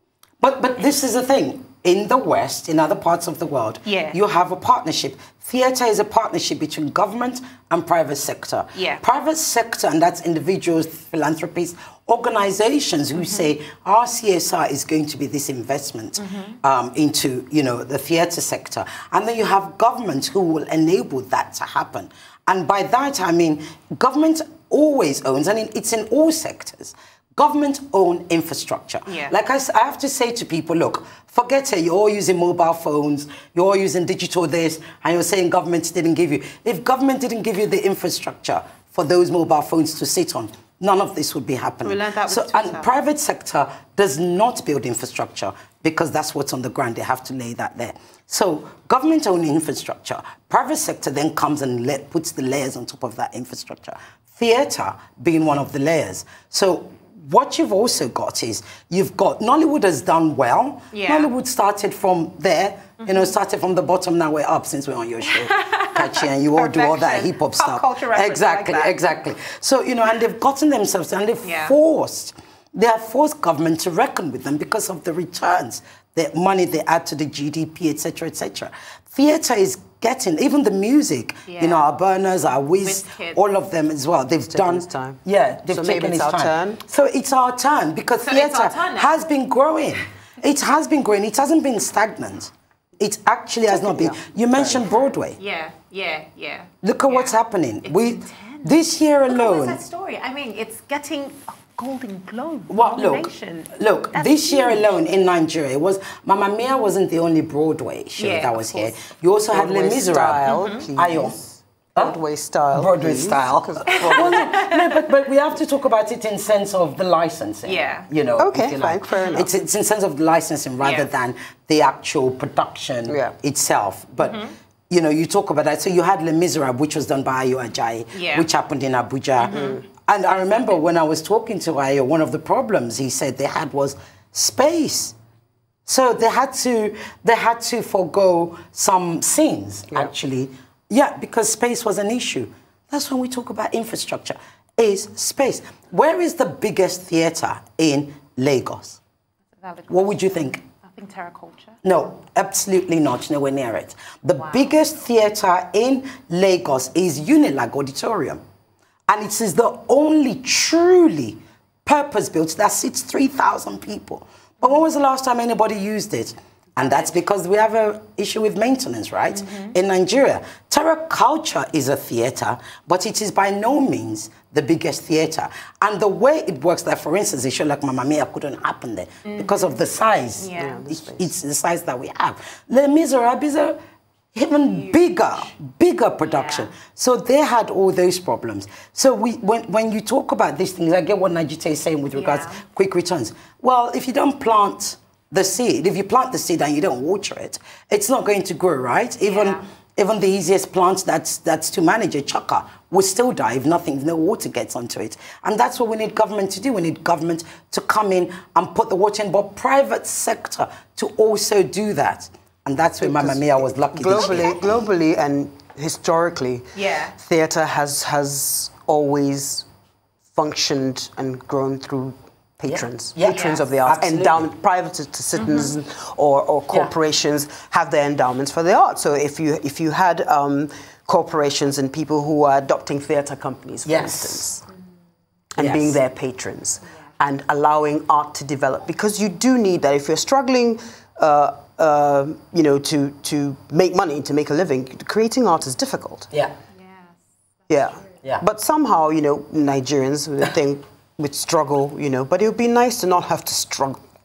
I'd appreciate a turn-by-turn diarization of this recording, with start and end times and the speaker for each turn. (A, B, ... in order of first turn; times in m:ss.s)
0:00.4-1:35.4 A
0:03.8-0:04.2 B
0:08.7-0:09.0 B
0:13.2-0:13.5 B
0:16.2-0:16.6 B
0:29.0-0:29.3 B
0:41.8-0:43.0 B
1:00.9-1:01.3 B
1:03.0-1:03.3 B
1:05.2-1:09.0 B
1:11.4-1:11.8 B
1:21.5-1:21.9 B
1:22.8-1:23.4 B
1:24.5-1:26.8 C
1:28.2-1:29.2 B
1:33.7-1:34.9 C
1:35.4-1:38.8 B
1:36.8-1:39.8 A
1:39.3-1:44.9 B
1:42.7-1:51.4 A
1:48.2-1:48.9 B
1:49.5-1:54.5 C
1:50.5-1:50.8 B
1:52.7-2:15.1 A
1:53.9-1:55.0 B
1:57.6-1:58.1 B
1:58.4-1:59.5 C
1:59.2-1:59.5 B
2:00.8-2:01.1 B
2:03.1-2:03.3 C
2:04.2-2:04.5 B
2:08.1-2:08.5 B
2:09.4-2:09.8 B
2:09.5-2:09.8 C
2:15.9-2:29.0 A
2:29.6-2:31.8 B
2:29.9-2:30.6 A
2:31.8-2:38.4 A
2:34.4-2:34.8 B
2:39.1-3:03.8 A
2:46.8-2:47.1 B
2:59.2-2:59.6 B
3:00.4-3:00.9 B
3:00.6-3:01.3 C
3:04.3-3:34.6 A
3:04.6-3:05.5 B
3:06.2-3:06.7 B
3:12.1-3:12.6 B
3:19.2-3:19.6 B
3:33.0-3:39.6 C
3:36.7-3:37.1 B
3:40.3-3:54.6 C
3:42.7-3:44.5 A
3:43.3-3:43.6 B
3:45.4-3:45.7 B
3:53.8-3:54.4 A
3:55.5-4:06.3 C
3:55.6-3:56.0 A
4:06.8-4:07.1 B
4:07.7-4:14.0 C